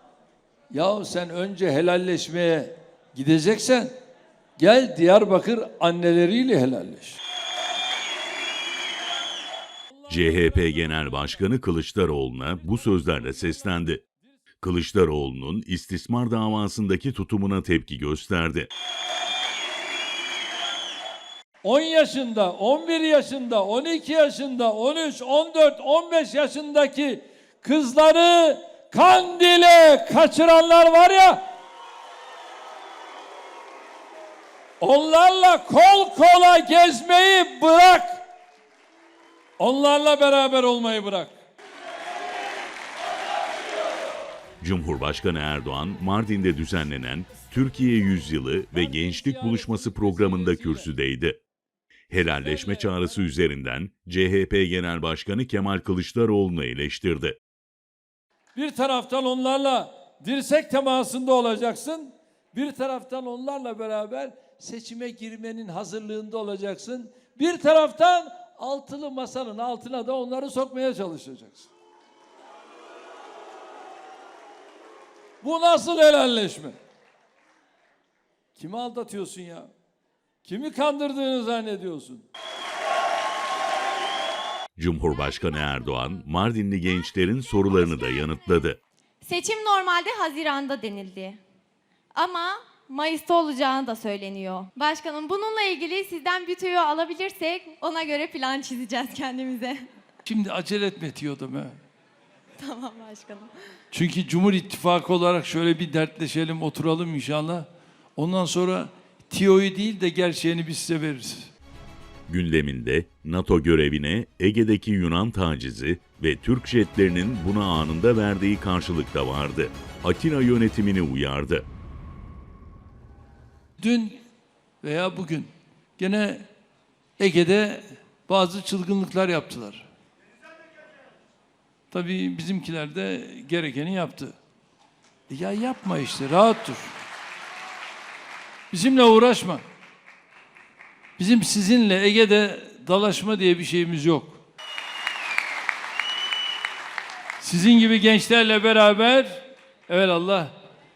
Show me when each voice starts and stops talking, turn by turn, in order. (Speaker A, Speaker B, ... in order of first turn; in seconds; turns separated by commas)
Speaker A: 0.7-3.9, Speaker A: 4.6-7.2, Speaker A: 9.9-11.6, Speaker B: 10.1-14.0, Speaker A: 12.5-14.0, Speaker B: 14.6-18.7, Speaker A: 21.6-31.5, Speaker A: 34.8-38.2, Speaker A: 39.6-41.3, Speaker B: 44.6-51.4, Speaker A: 48.7-50.9, Speaker B: 52.1-57.4, Speaker A: 52.1-53.2, Speaker A: 58.5-71.7, Speaker A: 75.4-76.8, Speaker A: 78.5-79.7, Speaker A: 80.4-82.2, Speaker B: 84.8-88.8, Speaker C: 89.2-91.4, Speaker C: 92.2-99.9, Speaker A: 100.2-101.8, Speaker C: 102.6-103.5, Speaker A: 103.9-111.5, Speaker B: 112.3-121.7, Speaker A: 123.8-124.2, Speaker A: 124.8-126.5, Speaker A: 127.2-129.9, Speaker A: 131.9-134.3, Speaker A: 135.3-136.9, Speaker A: 138.7-139.6, Speaker A: 141.2-144.4, Speaker A: 147.4-150.5